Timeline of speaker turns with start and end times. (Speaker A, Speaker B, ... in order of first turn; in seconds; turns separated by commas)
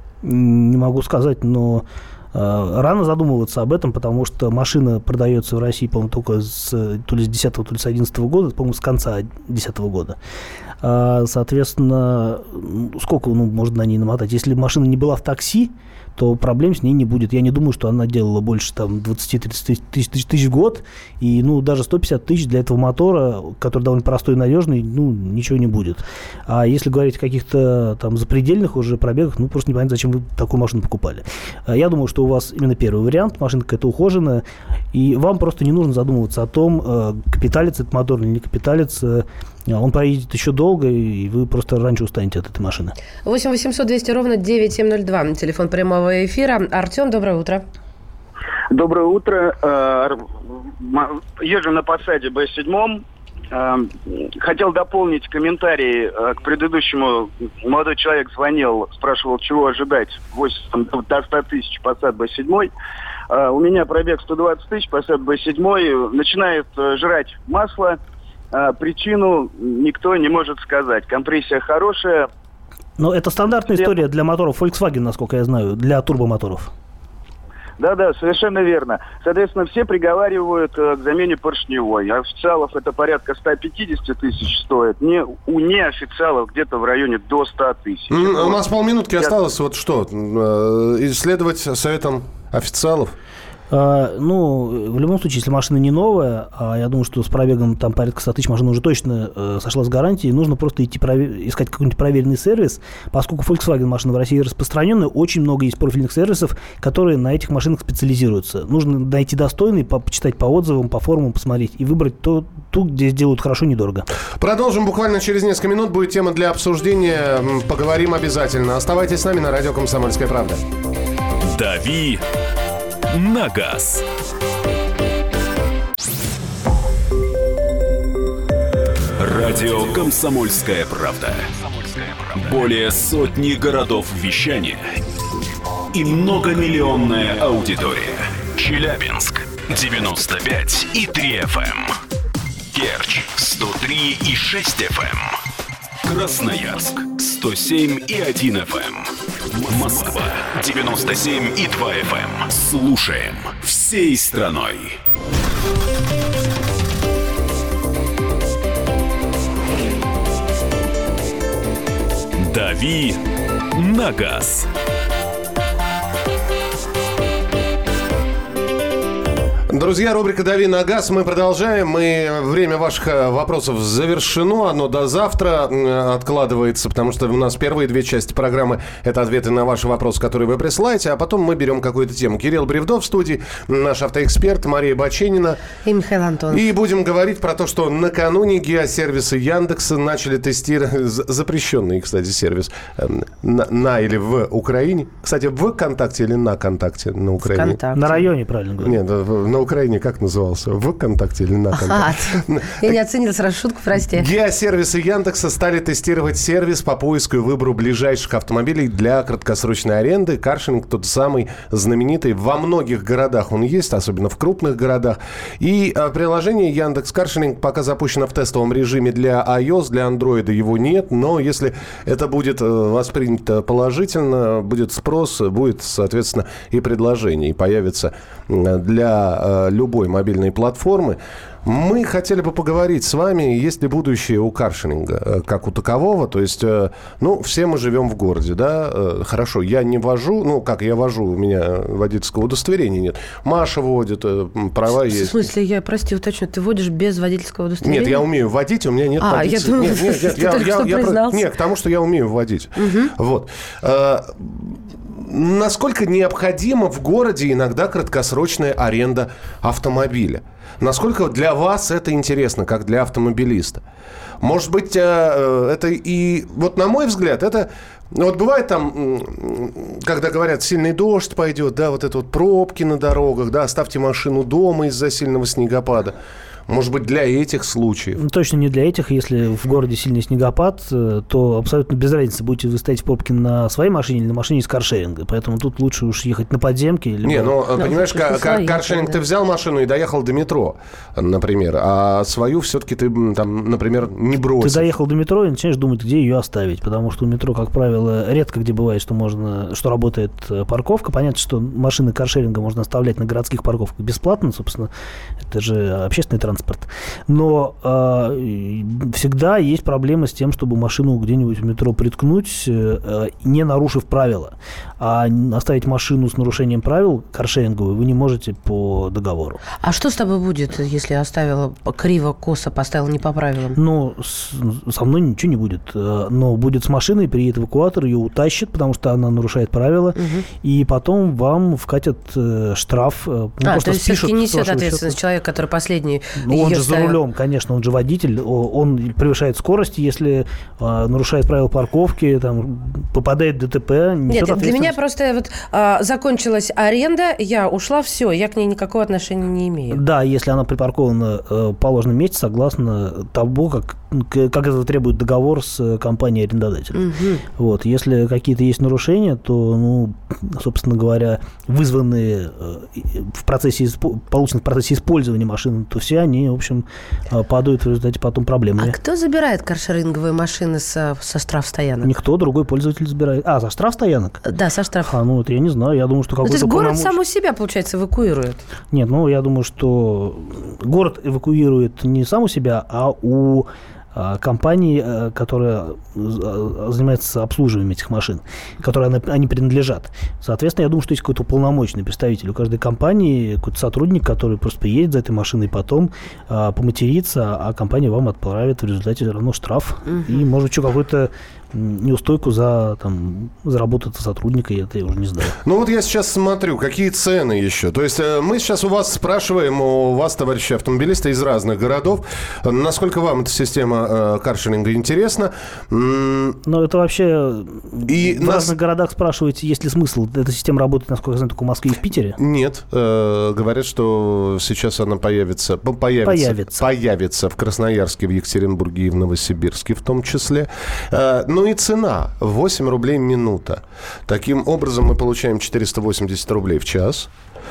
Speaker A: 0.2-10.2, Speaker A: 10.8-43.0, Speaker B: 43.2-47.6, Speaker C: 48.7-50.3, Speaker C: 50.8-62.7, Speaker C: 63.3-68.0, Speaker C: 68.5-72.3, Speaker A: 73.0-76.7, Speaker C: 77.8-88.7, Speaker D: 88.1-93.2, Speaker A: 93.7-114.1, Speaker D: 114.4-120.6, Speaker E: 121.4-122.2, Speaker E: 123.1-124.1, Speaker E: 129.2-135.0, Speaker E: 135.9-142.0, Speaker E: 142.7-145.4, Speaker E: 146.0-155.0, Speaker E: 162.4-163.2, Speaker E: 163.7-164.7, Speaker D: 169.7-185.6, Speaker B: 185.8-186.6, Speaker D: 186.5-197.8, Speaker B: 197.4-198.2, Speaker A: 197.9-199.0, Speaker D: 198.8-203.0, Speaker B: 201.7-204.3, Speaker D: 204.1-245.5, Speaker B: 245.1-248.2, Speaker D: 247.8-263.8, Speaker B: 249.2-251.4, Speaker B: 252.8-253.1, Speaker D: 264.4-276.2, Speaker D: 276.7-278.2, Speaker A: 278.2-287.6, Speaker D: 287.2-294.9, Speaker B: 287.8-289.2, Speaker A: 294.6-304.9, Speaker A: 305.5-319.6, Speaker B: 319.8-323.8, Speaker A: 323.8-335.2, Speaker B: 330.2-330.5, Speaker B: 333.6-337.2, Speaker A: 336.4-345.0, Speaker B: 344.3-350.0, Speaker A: 349.9-369.0, Speaker B: 356.9-357.4, Speaker B: 368.8-372.1, Speaker A: 372.0-374.4, Speaker B: 374.4-375.1, Speaker A: 375.1-377.2, Speaker B: 376.4-378.6, Speaker A: 378.9-405.6, Speaker B: 400.1-400.4, Speaker D: 405.6-416.6, Speaker A: 416.6-422.4, Speaker D: 418.1-418.7, Speaker D: 422.4-437.3, Speaker A: 426.2-426.8